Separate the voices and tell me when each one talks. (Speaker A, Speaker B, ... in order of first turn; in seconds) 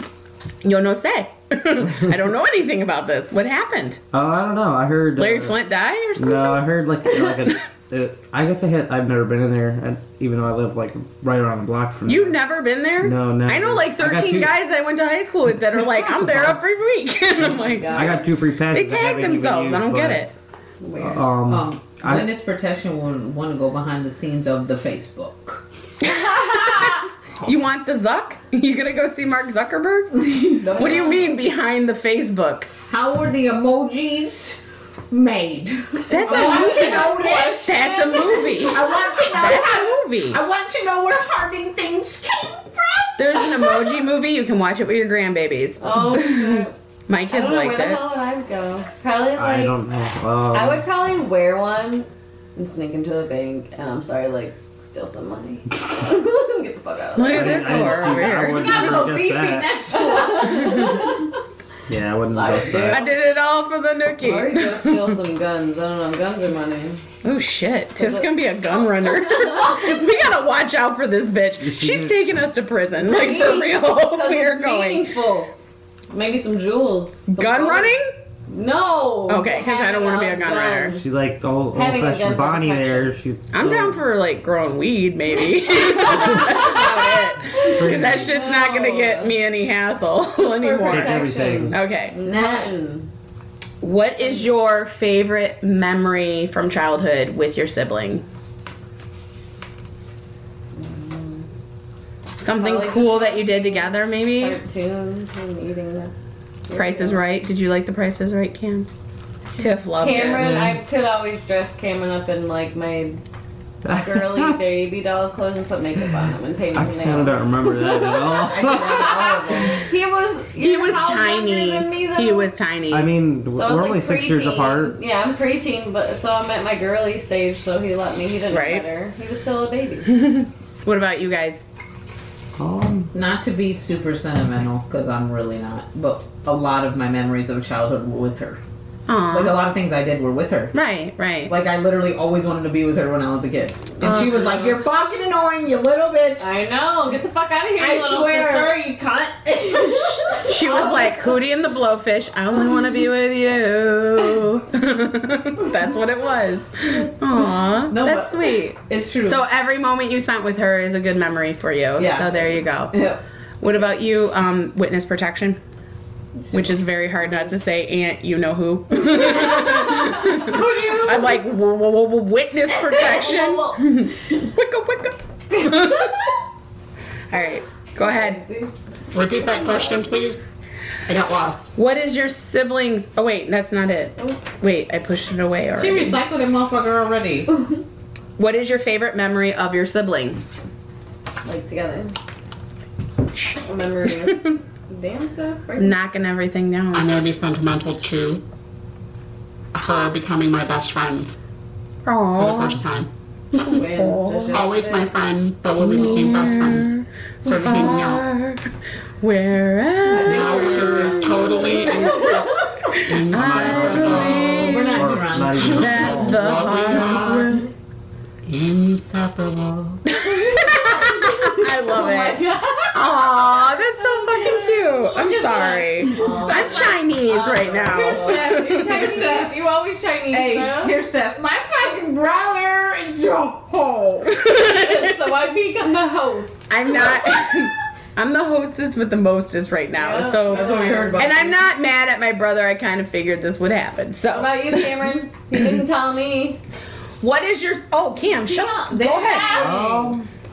Speaker A: 0.6-4.0, 5.2-6.6, 12.1-18.2, 18.7-20.3, 26.0-32.7, 36.1-40.4, 43.2-48.0, 57.1-59.1, 62.9-65.2, 67.2-75.1, 77.3-78.1, 79.3-81.0, 83.5-92.2, 93.8-98.2, 102.4-104.6, 106.7-108.9, 109.6-110.6, 120.6-123.1, 128.5-128.8, 130.1-131.6, 139.1-139.6, 140.7-141.5, 144.0-144.6, 150.4-163.0, 163.6-165.6, 166.5-176.2, 177.3-178.4, 181.8-186.2, 188.4-190.4, 195.8-197.1, 202.1-202.8, 203.5-204.6, 205.8-208.7, 209.2-212.0, 212.9-215.1, 215.7-217.7, 220.1-229.0, 234.4-235.1, 236.7-245.0, 247.2-249.7
Speaker B: 4.1-5.6, 6.2-12.4, 13.0-14.5, 16.1-16.6, 17.4-20.2, 21.0-22.3, 49.4-50.8, 57.3-59.8, 61.9-63.0, 71.6-72.2, 81.0-84.0, 87.5-88.3, 90.9-91.8, 110.3-110.8, 113.8-114.6, 116.7-119.4, 122.9-125.0, 132.6-133.1, 213.3-216.6, 249.6-250.2
Speaker C: 17.4-18.3, 20.8-21.2, 36.1-39.1, 45.8-46.7, 47.3-49.8, 50.5-58.4, 59.9-61.3, 62.3-63.2, 64.2-67.0, 68.0-68.3, 69.1-69.8, 73.0-75.5, 76.1-78.0, 78.5-81.0, 81.7-83.1, 85.7-89.3, 90.4-93.1, 100.8-101.5, 102.5-107.2, 109.9-113.2, 113.9-122.5, 123.5-130.1, 146.4-151.4, 156.9-157.5, 169.4-170.2, 172.8-174.0, 175.6-176.3, 178.0-178.7, 179.5-179.8, 191.4-192.2, 193.6-196.0, 203.6-205.1, 210.1-213.0, 220.2-225.2, 226.1-231.0, 234.4-236.7, 239.9-241.5, 244.3-246.6, 248.3-250.2
Speaker D: 21.5-25.6, 30.2-31.3, 32.9-34.6, 35.1-43.9, 58.5-61.1, 92.2-92.9, 118.5-119.9, 133.1-138.6, 139.3-140.8, 141.5-146.5, 147.8-148.8, 149.6-150.5, 157.9-159.4, 162.0-163.2, 170.2-171.4, 185.8-187.6, 210.1-210.9, 214.3-217.6, 225.0-226.9, 227.8-229.6, 230.3-234.4, 240.5-241.5, 248.9-250.2
Speaker E: 179.1-180.5, 181.1-181.8, 196.9-198.4, 199.7-201.3, 202.4-203.1, 204.5-208.2, 210.1-214.8, 215.8-217.6, 218.4-220.0